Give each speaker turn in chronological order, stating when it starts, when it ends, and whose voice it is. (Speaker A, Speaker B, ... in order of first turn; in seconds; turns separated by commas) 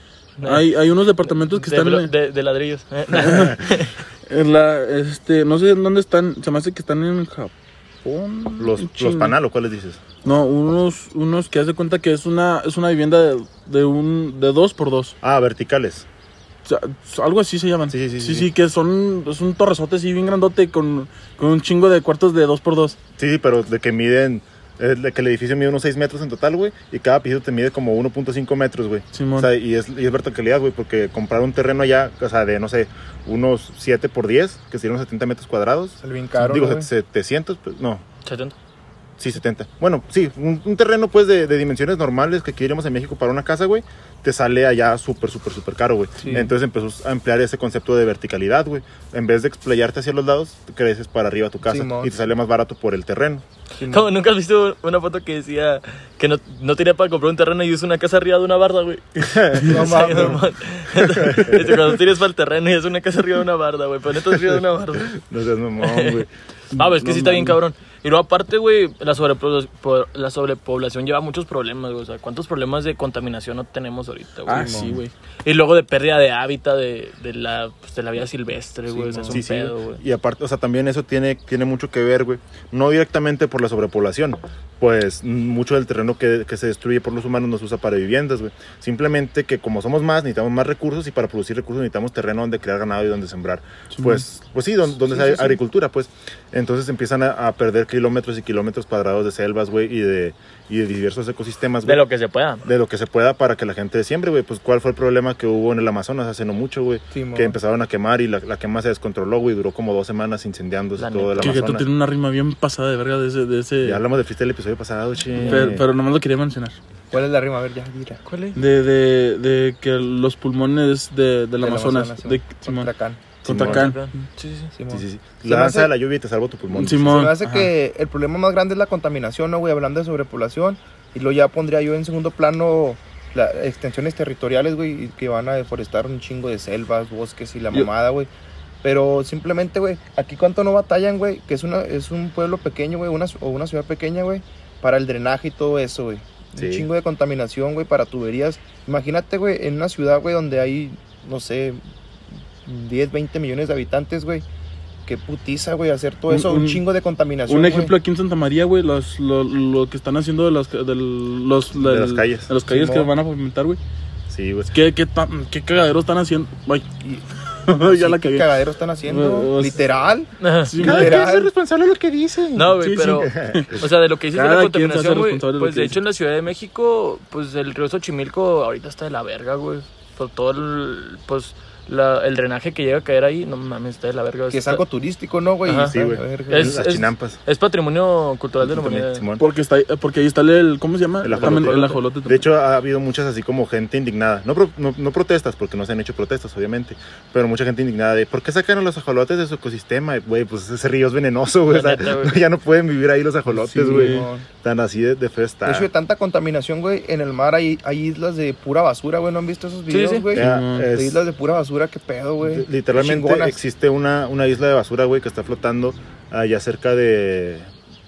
Speaker A: 0.4-4.0, Speaker B: 0.4-2.1, Speaker B: 3.1-3.6, Speaker B: 4.3-7.5, Speaker B: 8.0-9.4, Speaker C: 8.6-10.0, Speaker B: 10.2-15.2, Speaker C: 15.2-16.1, Speaker B: 16.6-23.0, Speaker C: 17.9-18.5, Speaker C: 23.2-38.0, Speaker B: 29.1-29.5, Speaker D: 36.0-36.9, Speaker A: 38.2-38.5, Speaker C: 39.2-53.4, Speaker D: 46.2-46.5, Speaker D: 51.6-52.2, Speaker D: 53.8-54.1, Speaker A: 53.8-65.2, Speaker C: 59.2-59.8, Speaker D: 59.6-60.4, Speaker C: 61.2-61.9, Speaker C: 65.2-66.3, Speaker A: 65.8-74.9, Speaker B: 74.5-75.1, Speaker D: 74.5-75.0, Speaker A: 75.5-80.0, Speaker D: 78.9-79.5, Speaker C: 79.3-102.0, Speaker B: 93.9-94.2, Speaker D: 95.0-95.6, Speaker A: 101.8-102.6, Speaker C: 102.6-111.9, Speaker D: 107.1-107.6, Speaker A: 111.0-111.7, Speaker B: 111.4-114.0, Speaker C: 113.8-115.9, Speaker A: 115.4-115.7, Speaker B: 115.4-116.8, Speaker D: 117.1-118.2, Speaker A: 118.3-118.6, Speaker B: 118.5-122.9, Speaker D: 121.6-123.2, Speaker B: 123.4-124.1, Speaker C: 123.5-123.9, Speaker A: 123.6-124.7, Speaker D: 124.7-125.9, Speaker C: 124.9-127.3, Speaker B: 126.7-127.7, Speaker D: 127.1-138.3, Speaker D: 138.8-151.8, Speaker C: 146.6-146.9, Speaker D: 152.7-154.4, Speaker D: 155.1-157.9, Speaker B: 156.3-156.8, Speaker B: 157.5-163.8, Speaker C: 161.7-162.5, Speaker D: 162.7-163.1, Speaker C: 164.3-164.8, Speaker B: 164.7-166.9, Speaker D: 167.0-171.5, Speaker B: 167.7-168.5, Speaker B: 169.1-169.8, Speaker A: 170.4-170.8, Speaker B: 170.6-171.2, Speaker C: 170.8-173.9, Speaker A: 172.6-184.8, Speaker B: 172.8-173.7, Speaker B: 174.3-176.0, Speaker D: 184.5-186.8, Speaker A: 185.7-185.9, Speaker C: 185.9-187.4, Speaker A: 186.5-189.2, Speaker C: 188.6-189.5, Speaker B: 189.4-192.4, Speaker C: 191.2-205.9, Speaker A: 191.2-192.0, Speaker A: 201.7-202.4, Speaker B: 203.6-204.3, Speaker D: 203.7-204.5, Speaker D: 205.6-213.6, Speaker A: 209.9-210.3, Speaker C: 210.3-211.2, Speaker B: 210.3-210.9, Speaker C: 212.4-217.7